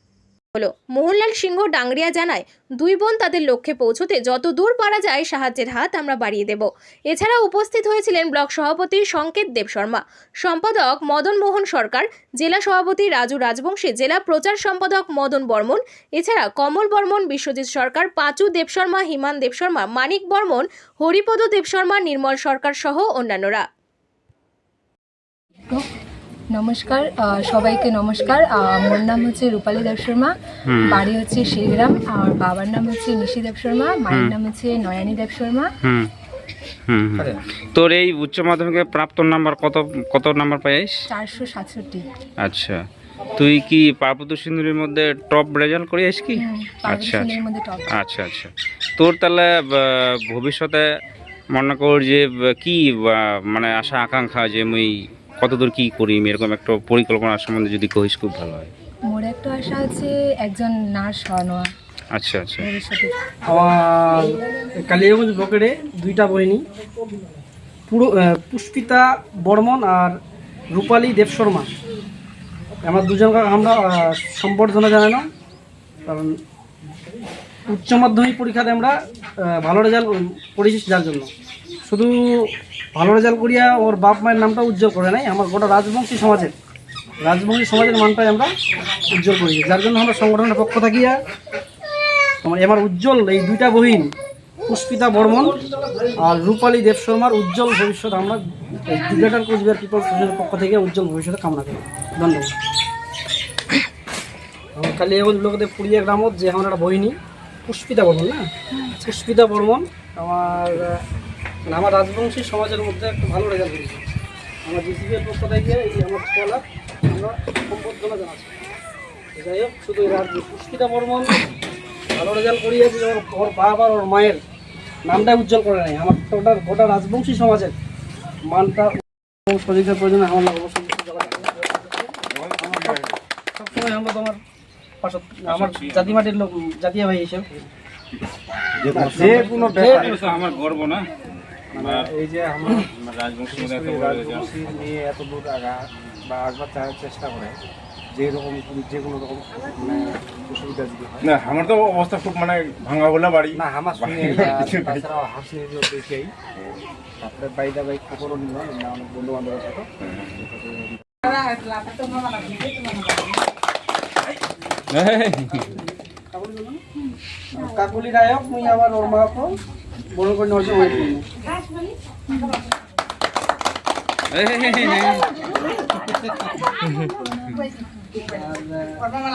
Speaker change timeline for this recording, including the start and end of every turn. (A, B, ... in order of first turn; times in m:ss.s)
0:00.5-0:23.6 A
0:26.5-0:30.3 B
0:30.7-0:31.0 C
0:30.8-0:35.7 B
0:35.8-0:36.1 C
0:36.9-0:40.9 C
0:41.1-0:42.0 B
0:42.4-0:42.8 C
0:43.4-0:47.4 C
0:46.4-0:47.9 B
0:48.0-0:50.8 C
0:51.5-0:58.7 C
0:59.1-1:01.7 B
1:02.1-1:02.6 C
1:02.6-1:03.1 B
1:03.5-1:06.6 D
1:07.9-1:10.2 D
1:10.7-1:11.7 D
1:12.8-1:15.2 D
1:16.1-1:16.3 D
1:17.7-1:18.9 D
1:19.5-1:21.3 D
1:21.8-1:26.5 D
1:27.2-1:28.5 D
1:29.1-1:31.2 D
1:32.4-1:34.1 D
1:34.7-1:35.6 D
1:36.2-1:42.5 D
1:44.8-1:51.0 D
1:51.7-1:54.0 D
1:54.6-1:58.5 D
1:59.4-2:01.4 D
2:02.1-2:04.4 D
2:05.0-2:07.7 D
2:08.5-2:13.0 D
2:12.3-2:13.1 E
2:13.6-2:14.4 D
2:15.0-2:17.7 D
2:15.5-2:16.1 C
2:18.8-2:19.4 E
2:18.9-2:20.2 F
2:18.9-2:20.3 D
2:19.8-2:21.1 C
2:21.7-2:22.1 C
2:21.7-2:22.9 F
2:22.7-2:24.8 C
2:23.5-2:27.6 F
2:28.1-2:31.3 F
2:31.2-2:35.1 E
2:33.6-2:36.3 F
2:37.2-2:41.0 F
2:44.9-2:45.6 C
2:46.3-2:46.8 D
2:47.5-2:49.5 D
2:50.1-2:51.3 D
2:54.3-2:55.3 C
2:58.2-2:59.1 D